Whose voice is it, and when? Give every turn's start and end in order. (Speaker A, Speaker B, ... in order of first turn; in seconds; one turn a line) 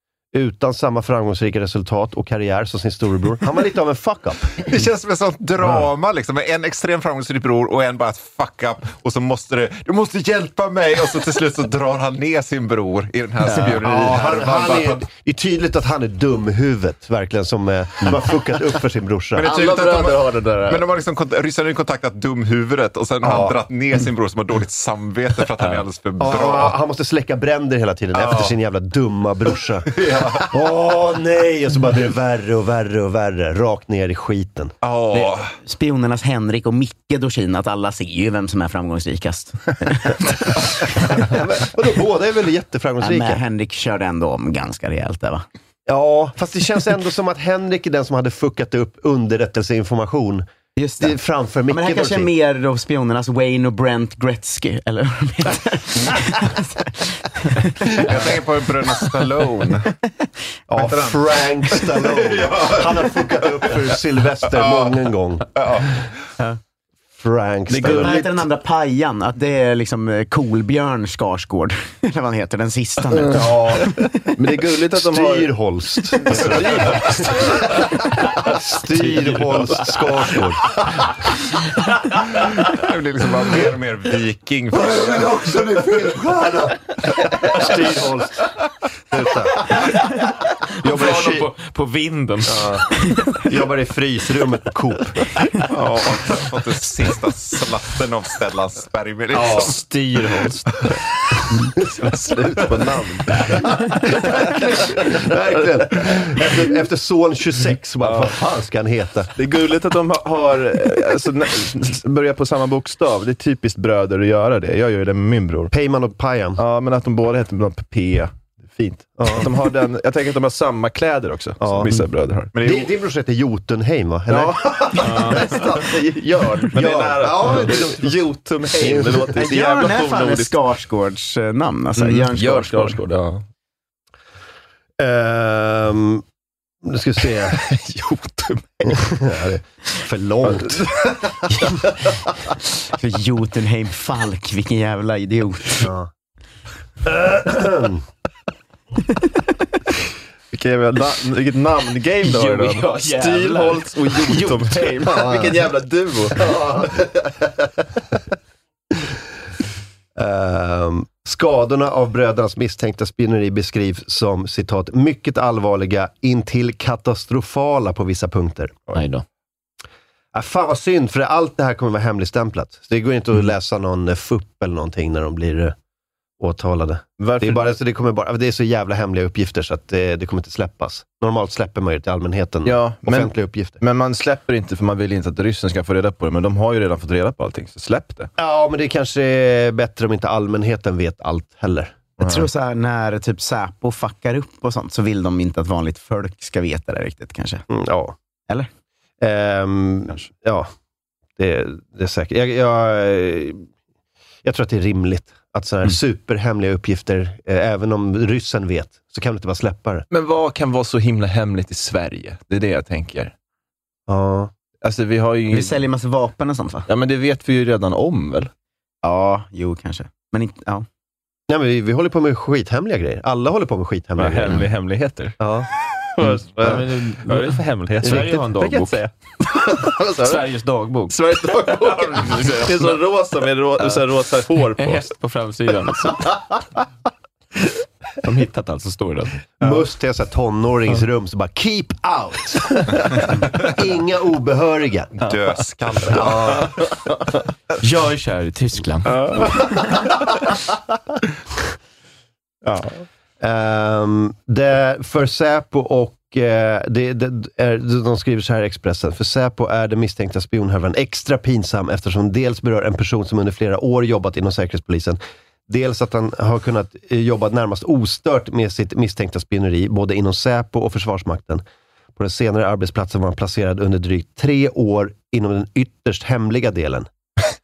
Speaker A: 0.3-4.8
Speaker B: 4.6-15.0
Speaker A: 13.8-19.5
Speaker B: 19.4-26.8
Speaker C: 19.7-20.8
Speaker A: 23.2-23.6
Speaker A: 26.2-34.8
Speaker B: 28.1-28.5
Speaker B: 29.9-30.5
Speaker B: 34.8-35.6
Speaker D: 35.1-40.8
Speaker A: 41.1-43.4
Speaker D: 43.0-45.5
Speaker A: 45.9-50.5
Speaker D: 50.8-59.3
Speaker A: 51.0-52.3
Speaker B: 58.0-59.9
Speaker A: 60.7-65.5
Speaker B: 60.8-63.8
Speaker B: 64.5-65.0
Speaker B: 65.5-66.0
Speaker A: 67.2-68.3
Speaker E: 67.7-68.3
Speaker D: 67.8-74.2
Speaker E: 73.2-75.5
Speaker A: 73.3-73.8
Speaker A: 74.9-80.8
Speaker E: 76.2-77.3
Speaker C: 79.0-79.9
Speaker B: 82.3-85.6
Speaker A: 84.9-88.5
Speaker A: 89.1-89.9
Speaker A: 90.8-91.5
Speaker C: 90.8-92.6
Speaker A: 92.5-95.3
Speaker B: 95.7-99.8
Speaker C: 99.5-100.7
Speaker A: 101.8-109.3
Speaker E: 102.1-103.6
Speaker E: 108.0-108.4
Speaker E: 109.4-115.7
Speaker A: 115.7-116.6
Speaker E: 116.6-122.9
Speaker A: 119.2-119.6
Speaker A: 121.6-126.0
Speaker E: 124.3-130.6
Speaker C: 125.0-125.4
Speaker A: 126.6-129.3
Speaker D: 129.3-133.0
Speaker E: 132.0-133.4
Speaker A: 135.0-136.2
Speaker A: 136.8-137.6
Speaker E: 137.5-138.9
Speaker A: 138.9-141.8
Speaker E: 140.4-140.9
Speaker D: 142.9-145.8
Speaker A: 145.8-146.1
Speaker A: 147.0-148.1
Speaker E: 150.5-156.9
Speaker C: 152.2-155.2
Speaker A: 155.1-155.5
Speaker A: 156.4-157.7
Speaker A: 160.2-168.8
Speaker C: 168.9-169.2
Speaker A: 170.3-175.8
Speaker A: 176.4-183.8
Speaker E: 177.2-177.7
Speaker E: 182.6-188.3
Speaker A: 188.4-192.1
Speaker D: 192.2-197.6
Speaker E: 192.2-192.5
Speaker A: 197.7-198.2
Speaker A: 199.2-200.7
Speaker A: 201.4-203.7
Speaker A: 204.4-210.1
Speaker E: 210.1-213.3
Speaker A: 214.1-214.5
Speaker E: 214.8-215.8
Speaker D: 215.5-216.9
Speaker E: 216.9-218.5
Speaker D: 219.0-220.9
Speaker A: 221.5-224.7
Speaker E: 224.2-225.4
Speaker A: 225.4-225.7
Speaker E: 226.2-230.5
Speaker C: 226.6-229.0
Speaker C: 230.2-233.0
Speaker E: 231.1-235.1
Speaker C: 234.8-236.3
Speaker C: 238.2-239.4
Speaker A: 239.6-245.1
Speaker B: 245.2-246.8
Speaker A: 246.0-246.8
Speaker C: 247.8-249.5
Speaker E: 249.1-249.7
Speaker E: 252.6-253.0
Speaker A: 253.4-271.6
Speaker A: 272.2-277.1